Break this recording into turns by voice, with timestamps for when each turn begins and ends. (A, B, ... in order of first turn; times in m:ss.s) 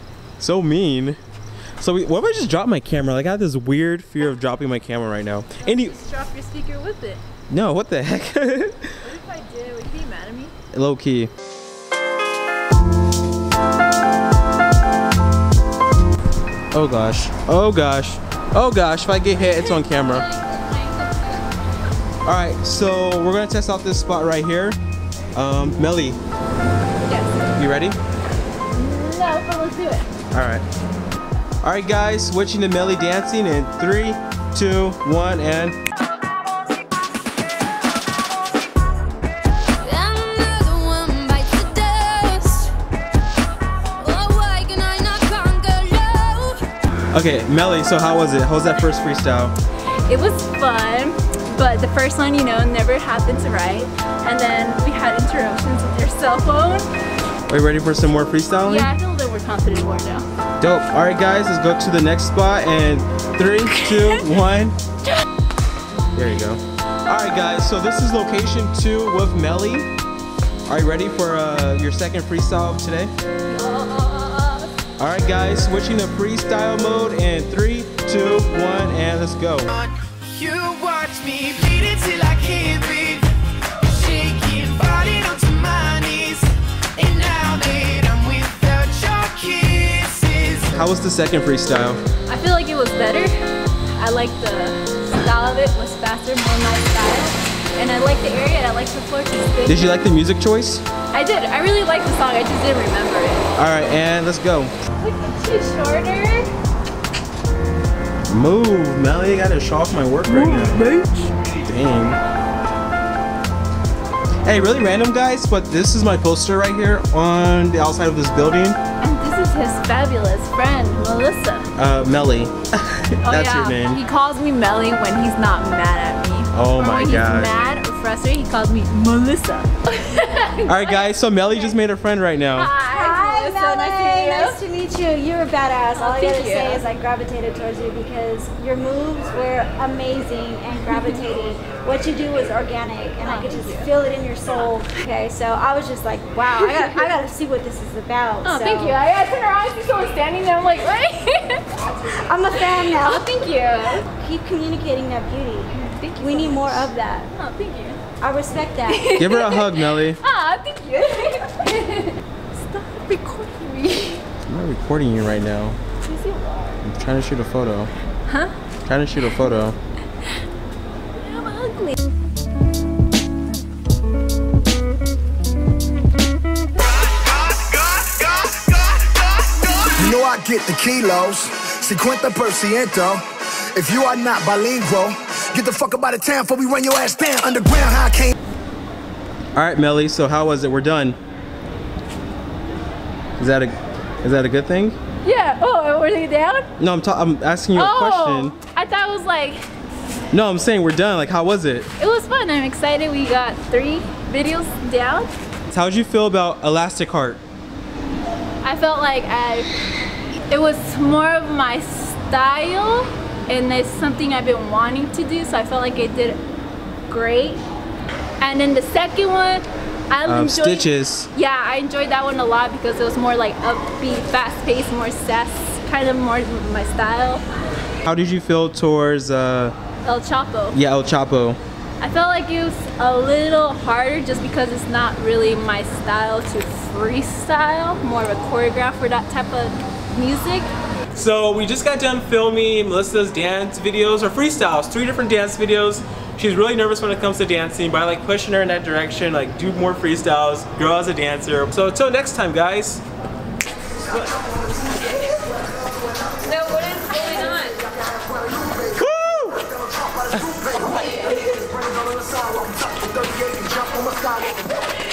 0:00.4-0:01.2 A
0:01.8-0:06.0 A
0:05.6-0:07.2 B
0:07.5-0:09.0 A
0:09.0-0:10.6 B
0:10.7-0:11.3 A
0:16.7-0:20.3 A
0:19.4-0:21.5 B
0:22.2-0:24.8 A
0:25.4-0:26.2 A
0:27.1-0:27.4 B
0:27.6-0:28.0 A
0:28.7-0:30.1 B
0:30.3-0:30.6 A
0:31.6-0:35.8 A
0:39.8-0:42.7 C
0:44.0-0:46.6 C
0:47.1-0:49.6 A
0:50.1-0:56.9 B
0:57.5-0:58.9 A
0:58.6-1:00.3 B
1:00.6-1:04.8 A
1:06.1-1:09.9 A
1:10.7-1:13.1 A
1:13.4-1:14.7 B
1:15.0-1:19.7 A
1:19.7-1:30.7 D
1:30.7-1:32.0 A
1:32.3-1:33.4 B
1:33.9-1:40.0 B
1:39.7-1:40.8 A
1:41.1-1:43.5 B
1:43.6-1:44.7 A
1:45.0-1:46.5 B
1:48.3-1:50.9 A
1:50.3-1:51.3 B
1:51.6-1:52.2 A
1:54.5-1:58.8 A
1:59.0-2:01.7 B
2:01.8-2:04.0 A
2:03.2-2:11.1 B
2:06.5-2:07.5 A
2:10.7-2:12.7 A
2:12.6-2:14.6 B
2:12.9-2:29.0 E
2:16.0-2:16.8 B
2:20.9-2:21.2 B
2:23.2-2:23.9 B
2:26.5-2:27.3 B
2:28.4-2:34.1 B
2:32.1-2:33.3 E
2:34.1-2:37.3 E
2:35.7-2:38.0 B
2:38.2-2:39.2 E
2:38.9-2:44.2 B
2:39.2-2:40.2 A
2:44.5-2:45.8 A
2:46.0-2:46.8 B
2:46.8-2:47.9 A
2:48.3-2:48.5 B
2:48.9-2:49.8 A
2:51.1-2:52.0 B
2:57.5-2:59.0 F
2:59.8-3:03.2 F
3:03.8-3:08.3 F
3:09.6-3:11.2 A
3:13.4-3:15.0 A
3:15.2-3:16.7 B
3:16.8-3:18.6 A
3:17.7-3:19.7 B
3:20.3-3:21.9 A
3:22.0-3:25.3 B
3:25.7-3:27.4 A
3:28.6-3:29.7 B
3:30.5-3:36.4 B
3:37.1-3:37.6 B
3:38.4-3:47.5 B
3:40.3-3:41.3 A
3:48.0-3:49.8 A
3:50.0-3:50.8 B
3:50.7-3:51.6 A
3:52.0-4:00.7 B
4:01.1-4:13.0 A
4:16.6-4:17.8 C
4:18.2-4:18.8 F
4:19.0-4:19.6 A
4:20.1-4:20.9 F
4:21.5-4:24.8 F